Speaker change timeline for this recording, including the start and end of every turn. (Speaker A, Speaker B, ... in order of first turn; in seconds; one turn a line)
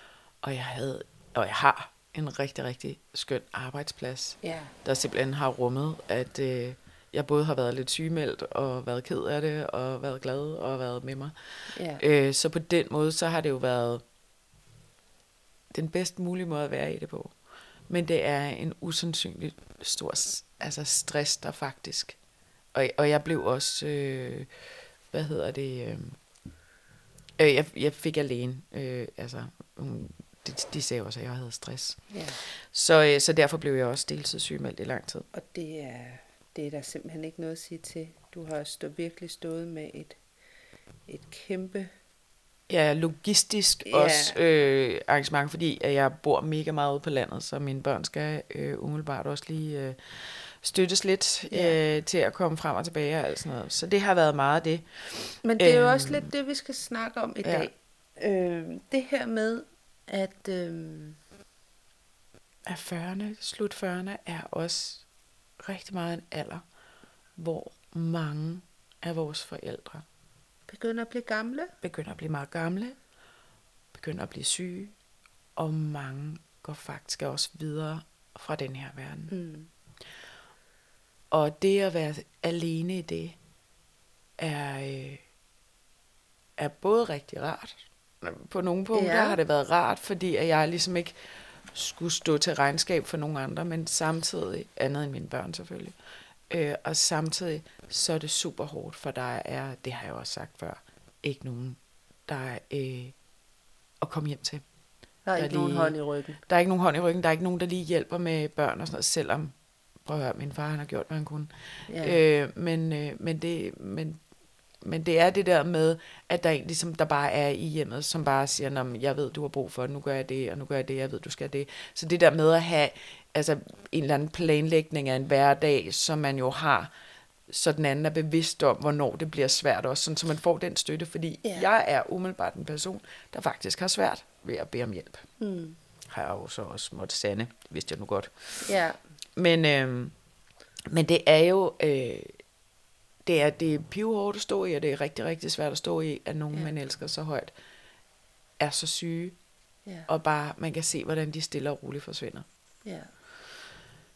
Speaker A: 0.4-14.0
Speaker B: 4.4-4.7
Speaker B: 11.7-12.0
Speaker A: 15.7-17.4
Speaker A: 17.9-22.2
Speaker A: 22.7-24.5
Speaker A: 25.1-26.2
Speaker A: 27.4-35.3
Speaker B: 32.1-32.4
Speaker B: 35.3-40.2
Speaker B: 41.1-41.9
Speaker A: 42.7-56.3
Speaker B: 43.9-44.4
Speaker B: 51.5-51.8
Speaker B: 55.4-61.2
Speaker A: 57.4-57.7
Speaker A: 62.7-65.1
Speaker A: 65.6-66.6
Speaker A: 67.4-70.0
Speaker B: 70.7-71.7
Speaker A: 71.8-73.0
Speaker A: 73.9-74.9
Speaker A: 75.6-79.3
Speaker B: 79.3-79.7
Speaker A: 81.3-83.4
Speaker A: 84.4-85.2
Speaker A: 86.6-91.2
Speaker B: 88.9-89.4
Speaker A: 91.7-96.0
Speaker A: 96.5-103.2
Speaker A: 104.0-104.6
Speaker B: 105.2-106.4
Speaker A: 105.4-109.5
Speaker A: 110.0-114.2
Speaker B: 111.9-112.2
Speaker A: 114.8-126.9
Speaker A: 127.5-135.3
Speaker B: 135.4-135.8
Speaker A: 136.1-138.7
Speaker B: 138.6-139.0
Speaker A: 139.4-140.1
Speaker A: 140.9-142.4
Speaker A: 143.2-147.5
Speaker A: 148.6-149.4
Speaker A: 150.1-152.5
Speaker B: 152.8-153.1